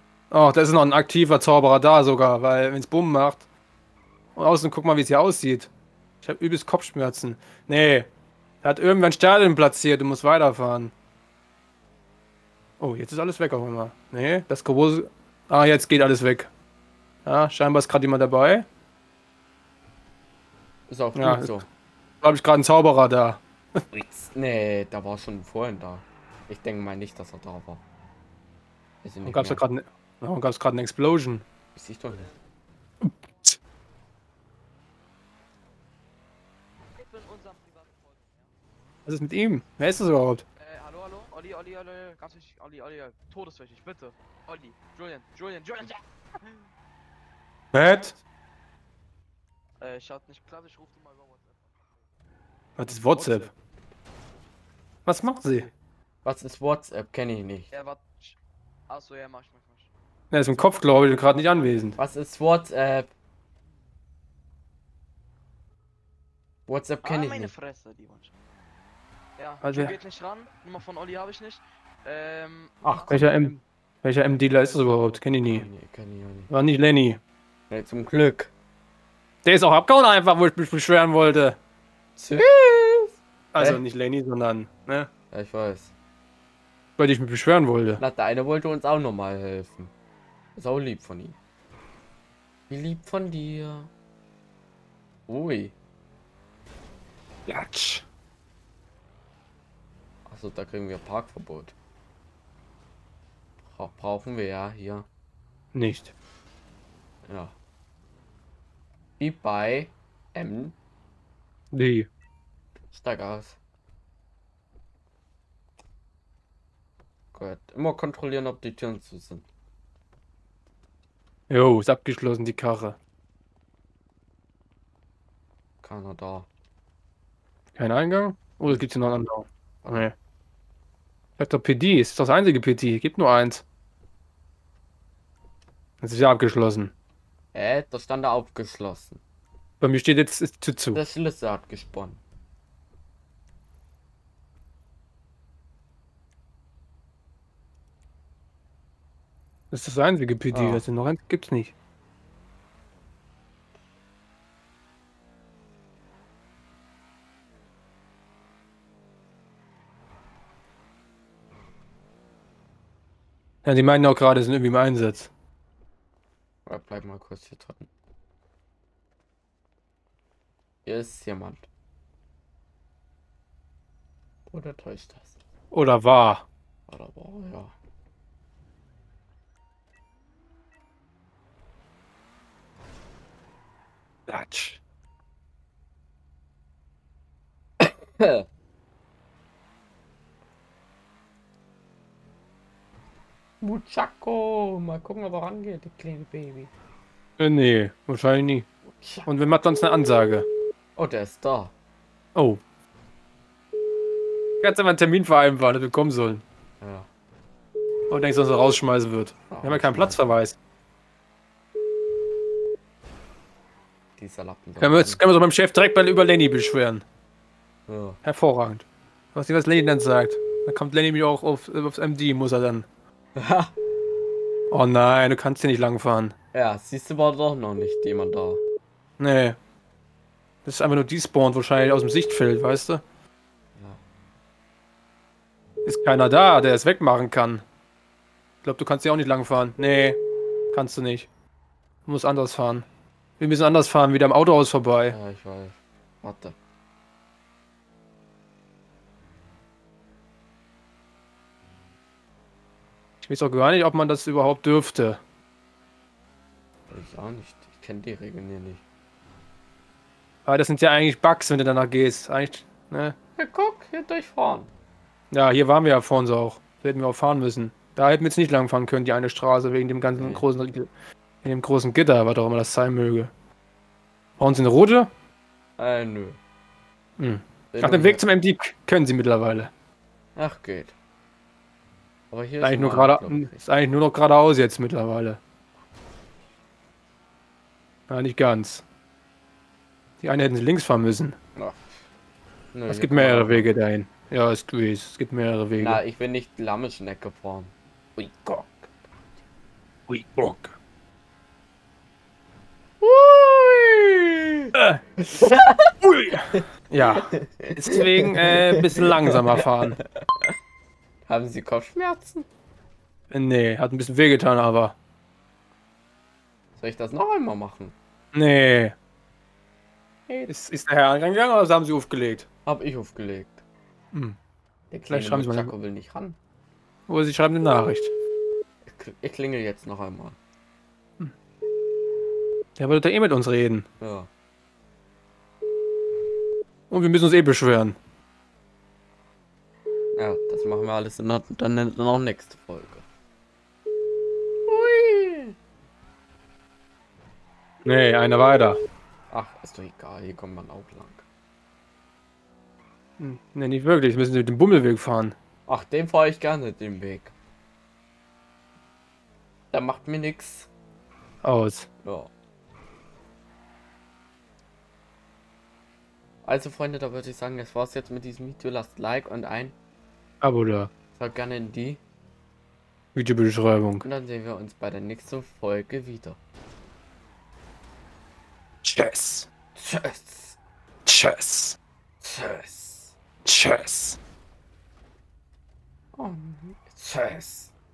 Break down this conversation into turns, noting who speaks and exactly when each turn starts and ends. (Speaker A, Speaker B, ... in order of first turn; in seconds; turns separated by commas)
Speaker A: 0.3-3.5, Speaker A: 4.4-5.7, Speaker A: 6.2-8.1, Speaker A: 8.6-10.9, Speaker A: 12.8-16.5, Speaker A: 17.3-18.7, Speaker B: 20.9-21.7, Speaker A: 21.1-21.6, Speaker A: 22.2-23.8, Speaker B: 23.9-27.8, Speaker B: 29.0-29.6, Speaker A: 29.2-31.4, Speaker B: 31.8-32.3, Speaker C: 32.1-32.4, Speaker A: 33.0-33.5, Speaker C: 37.0-38.5, Speaker A: 39.1-40.4, Speaker C: 40.6-46.6, Speaker A: 47.7-48.2, Speaker C: 49.8-52.0, Speaker A: 52.8-53.5, Speaker C: 53.1-53.5, Speaker A: 55.1-55.7, Speaker C: 55.4-55.7, Speaker B: 56.2-57.7, Speaker C: 57.7-58.4, Speaker C: 58.9-59.9, Speaker A: 60.3-62.0, Speaker B: 62.0-63.1, Speaker B: 66.7-67.5, Speaker C: 67.0-68.3, Speaker C: 69.4-73.6, Speaker A: 69.6-70.0, Speaker B: 72.8-73.2, Speaker A: 73.1-75.7, Speaker C: 74.5-75.0, Speaker B: 75.4-76.5, Speaker A: 76.5-77.2, Speaker B: 77.7-78.5, Speaker A: 79.5-81.6, Speaker B: 82.2-83.8, Speaker A: 83.5-85.1, Speaker B: 85.3-85.9, Speaker A: 87.0-88.0, Speaker B: 88.0-89.9, Speaker B: 90.6-91.4, Speaker B: 92.7-93.9, Speaker B: 95.3-95.8, Speaker A: 97.5-98.0, Speaker B: 100.3-101.8, Speaker B: 103.6-105.1, Speaker A: 105.7-106.1, Speaker B: 107.3-107.5, Speaker B: 109.2-110.8, Speaker A: 111.7-112.1, Speaker B: 112.9-113.6, Speaker B: 117.3-119.5, Speaker A: 121.5-123.0, Speaker B: 125.8-126.5, Speaker A: 127.8-130.1, Speaker B: 129.8-130.1, Speaker A: 131.4-133.6, Speaker A: 136.0-136.9, Speaker B: 137.5-139.2, Speaker A: 139.8-141.0, Speaker B: 140.9-142.2, Speaker A: 149.7-151.7, Speaker B: 150.5-150.8, Speaker A: 163.6-165.3, Speaker B: 166.7-167.9, Speaker B: 170.8-171.7, Speaker B: 174.5-175.3, Speaker A: 175.7-176.4, Speaker B: 176.9-177.7, Speaker A: 184.3-184.8, Speaker B: 187.8-188.5, Speaker B: 193.6-196.7, Speaker A: 197.4-198.7, Speaker B: 198.8-199.3, Speaker A: 199.3-200.5, Speaker B: 201.0-201.7, Speaker A: 202.3-202.6, Speaker A: 204.6-206.4, Speaker B: 206.8-207.1, Speaker A: 208.1-210.6, Speaker B: 209.5-210.2, Speaker B: 214.2-215.2, Speaker A: 214.8-217.0, Speaker B: 217.9-218.2, Speaker A: 218.2-222.9, Speaker B: 223.4-223.7, Speaker A: 224.7-226.3, Speaker B: 226.5-228.6, Speaker A: 229.2-229.6, Speaker A: 230.7-233.0, Speaker B: 233.8-234.0, Speaker A: 235.8-237.6, Speaker A: 238.6-240.2, Speaker A: 240.7-241.3, Speaker A: 242.1-242.9, Speaker A: 243.4-245.2, Speaker B: 245.1-246.6, Speaker A: 253.2-255.2, Speaker B: 256.9-258.8, Speaker A: 260.5-263.1, Speaker B: 263.4-264.7, Speaker A: 265.3-270.9, Speaker B: 270.1-270.4, Speaker A: 271.4-273.3, Speaker A: 274.4-275.1, Speaker B: 275.8-276.4, Speaker A: 277.2-279.7, Speaker B: 277.7-278.2, Speaker B: 280.4-280.9, Speaker B: 282.3-283.6, Speaker A: 282.6-285.4, Speaker A: 288.1-288.8, Speaker A: 290.2-291.4, Speaker B: 291.6-292.0, Speaker B: 292.7-293.7, Speaker A: 292.9-296.0, Speaker B: 295.8-298.9, Speaker A: 300.1-300.8, Speaker B: 303.0-304.7, Speaker A: 304.8-305.0, Speaker B: 305.2-305.9, Speaker A: 306.0-310.0, Speaker B: 306.5-310.6, Speaker B: 311.3-312.5, Speaker A: 313.3-314.9, Speaker B: 316.8-317.9, Speaker A: 318.3-319.0, Speaker A: 320.5-322.5, Speaker B: 322.6-323.6, Speaker B: 324.9-326.4, Speaker A: 325.1-325.7, Speaker A: 327.1-328.1, Speaker B: 328.8-330.4, Speaker A: 332.8-333.9, Speaker B: 334.0-334.3, Speaker A: 336.9-338.0, Speaker B: 340.1-343.1, Speaker B: 344.7-345.6, Speaker A: 347.9-348.8, Speaker B: 349.3-351.2, Speaker A: 353.2-355.4, Speaker B: 355.7-357.3, Speaker B: 359.7-360.7, Speaker A: 361.4-361.9, Speaker B: 362.0-362.3, Speaker B: 366.4-369.8, Speaker A: 370.4-370.9, Speaker B: 371.2-372.0, Speaker A: 373.1-374.1, Speaker B: 374.0-376.4, Speaker A: 378.8-379.5, Speaker B: 379.8-380.6, Speaker A: 381.1-381.8, Speaker B: 382.2-383.1, Speaker A: 383.4-384.2, Speaker B: 386.1-387.7